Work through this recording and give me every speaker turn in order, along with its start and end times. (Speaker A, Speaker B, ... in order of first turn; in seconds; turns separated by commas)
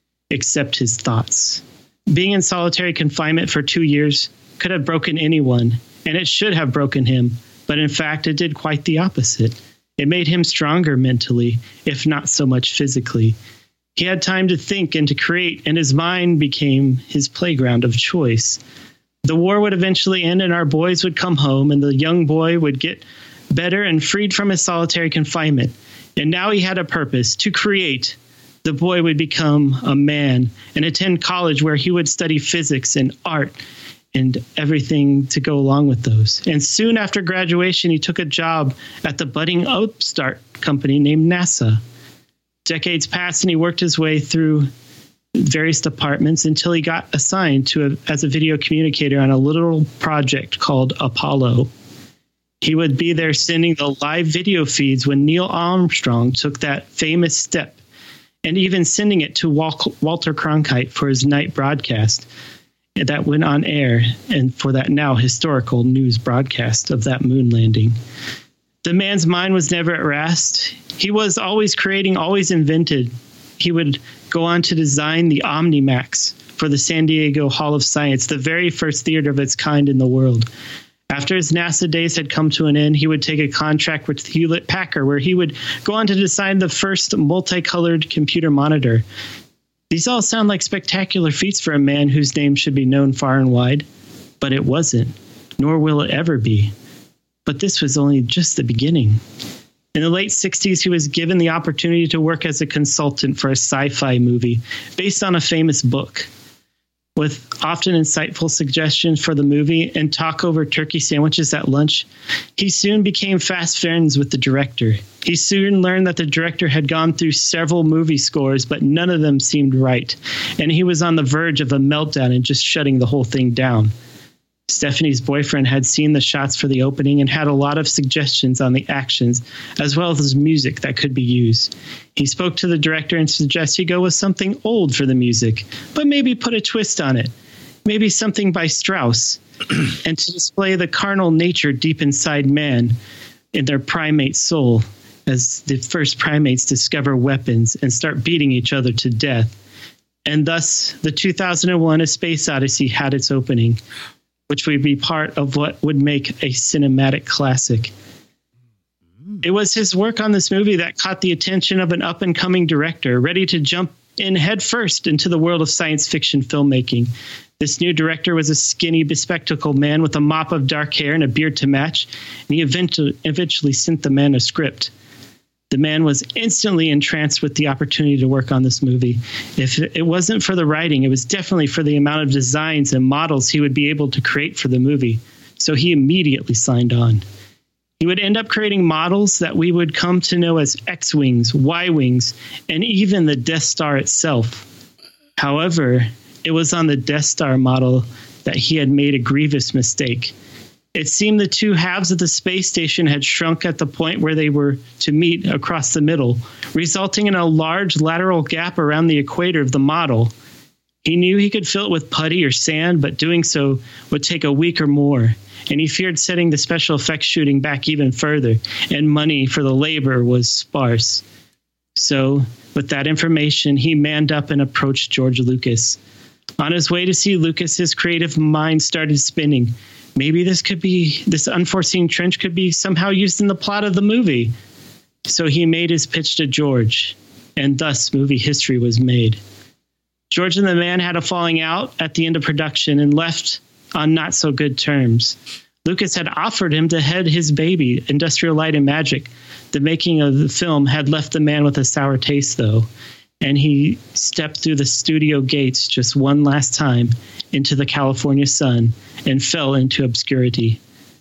Speaker A: 0.3-13.4, Speaker A: 14.0-18.6, Speaker A: 19.2-33.6, Speaker A: 34.1-41.8, Speaker A: 42.7-44.7, Speaker A: 45.4-51.7, Speaker A: 52.6-57.8, Speaker A: 58.5-62.3, Speaker A: 63.0-68.0, Speaker A: 68.8-80.5, Speaker A: 81.1-89.1, Speaker A: 89.9-93.9, Speaker A: 94.4-96.7, Speaker A: 97.5-99.2, Speaker A: 99.9-106.3, Speaker A: 107.2-123.9, Speaker A: 124.7-137.3, Speaker A: 137.8-143.0, Speaker A: 143.5-149.6, Speaker A: 150.3-153.8, Speaker A: 154.5-157.9, Speaker A: 159.4-174.9, Speaker A: 175.7-187.2, Speaker A: 188.0-194.7, Speaker A: 195.4-200.3, Speaker A: 200.9-210.3, Speaker A: 211.0-221.2, Speaker A: 222.0-226.0, Speaker A: 226.6-234.5, Speaker A: 235.3-239.4, Speaker A: 240.3-252.9, Speaker A: 253.4-260.8